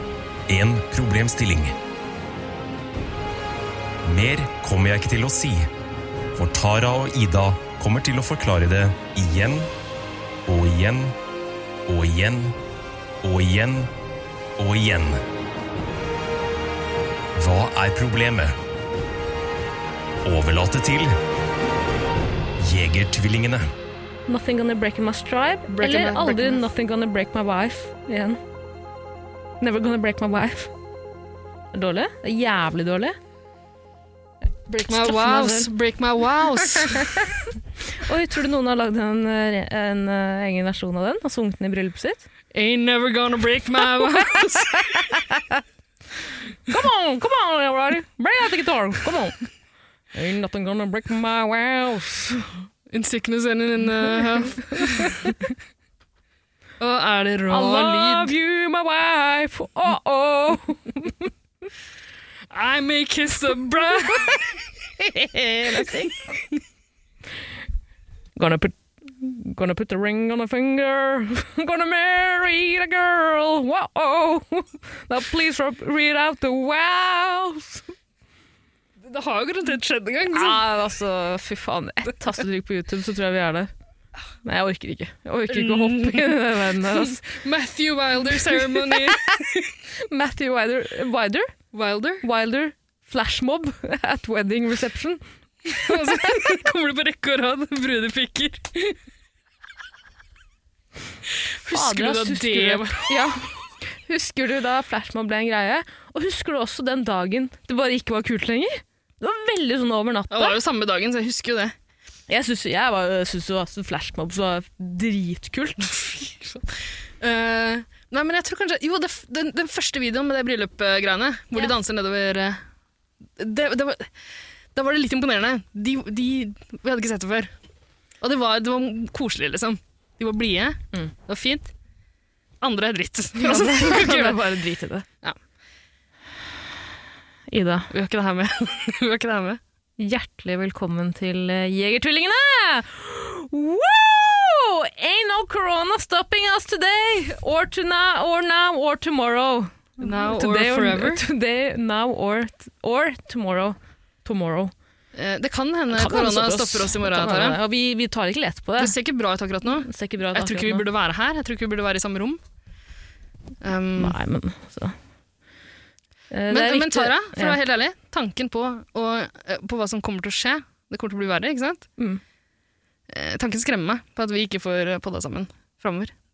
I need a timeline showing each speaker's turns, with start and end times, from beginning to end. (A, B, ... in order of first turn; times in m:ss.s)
0:00.5-0:01.8 A
0:04.0-0:05.7 A
0:06.4-0:09.7 A
0:10.5-0:11.2 A
0:11.9-0:12.6 A
0:13.2-0:13.9 A
0:14.6-0:15.2 A
0:17.4-0:18.6 A
0:20.2-0:21.2 A
0:22.6-0:23.7 A
0:24.3-0:28.4 B
0:25.7-0:26.6 C
0:29.6-0:30.7 B
0:31.7-0:33.2 B
0:34.7-0:37.3 C
0:34.9-0:35.7 B
0:36.7-0:42.2 B
0:42.5-0:45.1 C
0:43.8-0:45.6 B
0:46.7-0:49.4 B
0:50.1-0:52.5 B
0:52.9-0:55.4 C
0:54.3-0:55.5 B
0:56.8-0:58.3 C
0:57.5-1:01.3 B
1:02.5-1:04.7 C
1:05.0-1:06.3 B
1:08.4-1:17.9 B
1:19.1-1:20.6 C
1:20.3-1:23.7 B
1:24.4-1:27.2 B
1:25.5-1:29.7 C
1:30.0-1:31.5 B
1:31.7-1:32.3 C
1:32.2-1:35.2 B
1:35.7-1:39.0 C
1:35.8-1:36.6 B
1:41.6-1:43.3 C
1:41.7-1:50.6 B
1:50.3-1:51.7 C
1:52.3-1:56.3 B
1:57.2-2:02.6 C
2:03.4-2:04.1 C
2:04.8-2:07.5 C
2:08.2-2:11.7 C
2:12.6-2:14.5 C
2:13.4-2:15.0 B
2:17.5-2:17.9 B
2:17.9-2:19.6 C
2:20.0-2:34.7 B
2:30.0-2:31.2 C
2:35.1-2:37.6 C
2:35.9-2:38.9 B
2:38.8-2:42.4 C
2:39.7-2:40.9 B
2:43.6-2:44.2 C
2:44.0-2:45.0 B
2:46.3-2:47.6 B
2:46.5-2:51.9 C
2:53.1-2:56.1 C